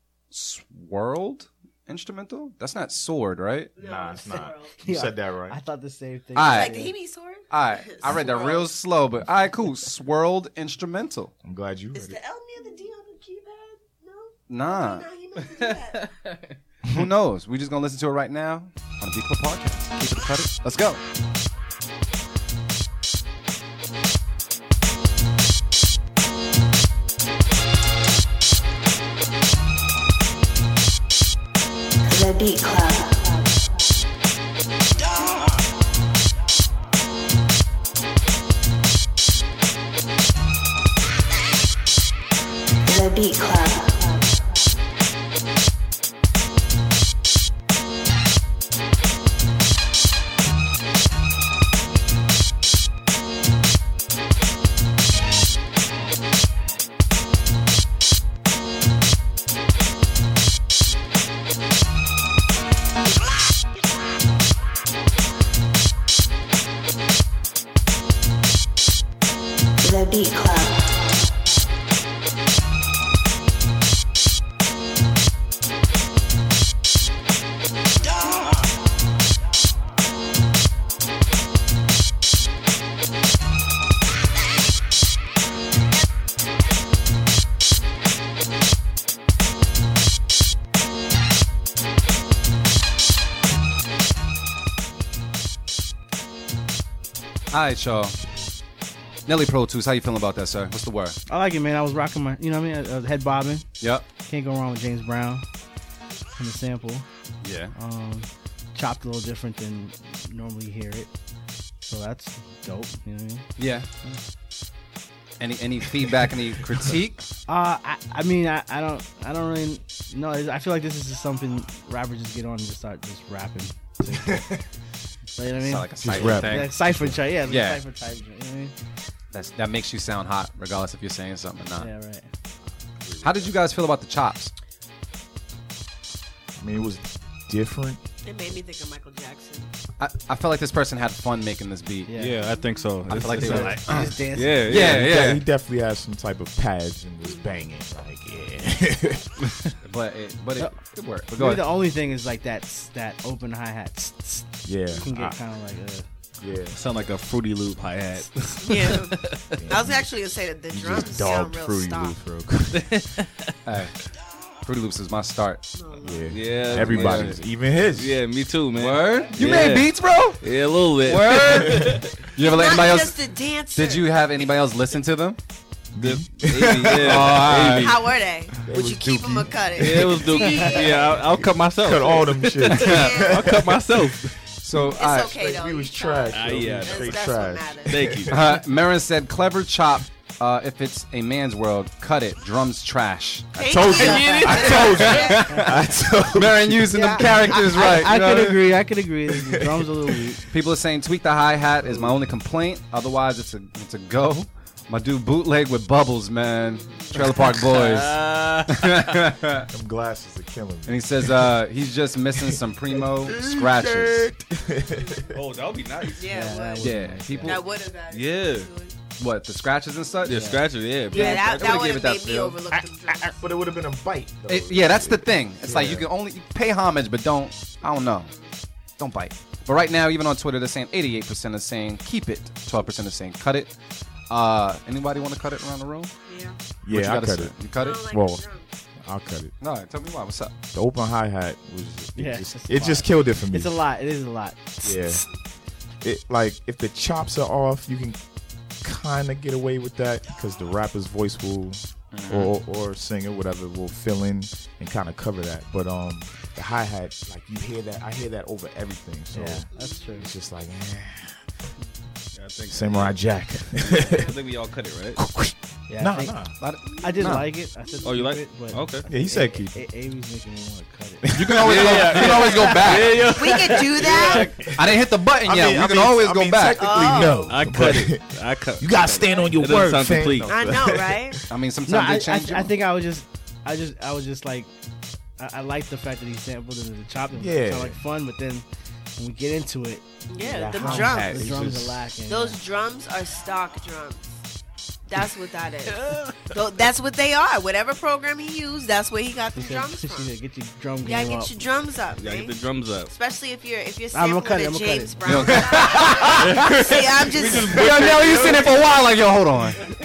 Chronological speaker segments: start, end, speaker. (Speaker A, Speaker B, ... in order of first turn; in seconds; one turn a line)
Speaker A: 0.3-3.7
Speaker B: 3.8-4.7
Speaker C: 3.8-5.6
Speaker D: 4.8-6.9
Speaker A: 6.3-6.8
Speaker B: 6.4-8.7
Speaker A: 7.5-11.3
Speaker C: 11.4-12.2
Speaker B: 11.9-16.2
Speaker A: 14.5-15.1
Speaker A: 16.9-21.0
Speaker E: 32.1-33.6
Speaker E: 42.9-44.3
Speaker E: 69.8-71.1
Speaker A: 97.5-98.2
Speaker A: 99.2-101.2
Speaker D: 101.3-103.7
Speaker A: 103.8-104.0
Speaker D: 104.2-105.4
Speaker D: 106.4-107.0
Speaker A: 107.4-107.7
Speaker D: 107.7-111.1
Speaker D: 111.9-113.5
Speaker A: 113.6-113.9
Speaker A: 115.4-117.2
Speaker D: 117.5-124.5
Speaker C: 124.1-124.6
Speaker D: 125.4-128.7
Speaker A: 125.6-126.8
Speaker C: 126.0-127.2
Speaker A: 127.5-127.8
Speaker A: 129.3-131.9
Speaker D: 131.8-132.3
Speaker A: 133.2-134.5
Speaker C: 136.6-138.0
Speaker B: 138.2-139.7
Speaker A: 140.0-142.2
Speaker D: 142.1-142.5
Speaker F: 142.1-145.3
Speaker B: 142.5-142.9
Speaker A: 143.1-145.4
Speaker D: 143.2-144.7
Speaker C: 144.7-149.3
Speaker A: 149.8-151.6
Speaker D: 151.3-156.1
Speaker C: 154.6-155.4
Speaker C: 156.4-156.8
Speaker F: 156.7-159.6
Speaker B: 158.6-162.2
Speaker C: 159.6-160.1
Speaker C: 160.7-163.0
Speaker F: 162.7-163.5
Speaker A: 163.7-163.9
Speaker A: 164.6-165.7
Speaker B: 165.8-166.8
Speaker C: 166.0-168.2
Speaker F: 166.3-167.4
Speaker A: 166.7-167.3
Speaker F: 167.9-172.2
Speaker A: 168.7-170.4
Speaker A: 171.0-173.2
Speaker B: 172.4-174.5
Speaker A: 173.7-175.4
Speaker C: 175.9-177.6
Speaker F: 176.0-178.0
Speaker A: 176.9-178.0
Speaker B: 177.8-181.2
Speaker C: 178.6-180.2
Speaker F: 179.7-184.3
Speaker C: 181.3-184.2
Speaker B: 182.8-183.5
Speaker A: 184.6-185.4
Speaker B: 184.8-188.2
Speaker C: 185.2-188.5
Speaker F: 186.3-187.2
Speaker F: 187.9-188.4
Speaker A: 188.3-198.7
Speaker B: 193.5-195.5
Speaker C: 193.6-196.9
Speaker B: 196.9-198.1
Speaker D: 197.7-200.4
Speaker C: 199.5-199.8
Speaker A: 200.5-209.7
Speaker B: 206.4-207.3
Speaker F: 207.4-209.0
Speaker C: 209.7-211.6
Speaker A: 210.8-214.3
Speaker C: 212.3-215.4
Speaker B: 214.8-215.3
Speaker F: 215.3-216.3
Speaker B: 216.2-218.9
Speaker D: 216.3-217.6
Speaker A: 216.8-217.6
Speaker F: 218.1-218.7
Speaker A: 219.2-220.4
Speaker F: 220.2-221.8
Speaker D: 220.3-220.6
Speaker B: 221.1-223.4
Speaker A: 221.1-222.6
Speaker C: 222.7-226.1
Speaker A: 224.5-228.3
Speaker B: 228.2-228.5
Speaker A: 229.0-233.7
Speaker A: 234.3-236.1
Speaker B: 236.3-236.6
Speaker C: 236.8-238.4
Speaker A: 236.9-238.1
Speaker B: 237.8-238.7
Speaker C: 239.0-239.5
Speaker A: 239.6-240.5
Speaker C: 240.7-243.7
Speaker D: 242.2-245.2
Speaker C: 244.8-245.2
Speaker C: 246.0-248.2
Speaker C: 248.8-261.5
Speaker A: 252.1-252.5
Speaker D: 259.3-260.3
Speaker B: 259.7-260.2
Speaker F: 262.3-263.2
Speaker C: 262.7-264.3
Speaker F: 263.8-265.2
Speaker B: 264.1-264.4
Speaker C: 265.1-266.5
Speaker D: 265.9-266.4
Speaker A: 266.6-267.5
Speaker B: 266.9-267.3
Speaker D: 267.0-271.3
Speaker F: 268.0-269.1
Speaker C: 269.1-269.8
Speaker C: 271.2-273.0
Speaker A: 271.4-273.3
Speaker F: 271.6-274.5
Speaker D: 272.1-272.7
Speaker B: 273.2-274.6
Speaker D: 274.1-274.5
Speaker A: 274.2-277.1
Speaker C: 274.3-281.4
Speaker B: 276.8-277.6
Speaker F: 277.5-280.7
Speaker B: 280.5-281.4
Speaker A: 281.5-282.7
Speaker D: 281.9-284.7
Speaker D: 285.4-288.6
Speaker C: 287.3-288.0
Speaker D: 289.2-290.0
Speaker B: 290.3-291.4
Speaker C: 290.4-292.1
Speaker D: 290.7-292.6
Speaker B: 292.3-294.4
Speaker B: 295.1-300.3
Speaker F: 296.0-296.5
Speaker D: 299.5-301.5
Speaker B: 301.0-308.4
Speaker F: 302.1-303.1
Speaker D: 304.1-305.6
Speaker A: 305.2-309.9
Speaker F: 306.3-308.7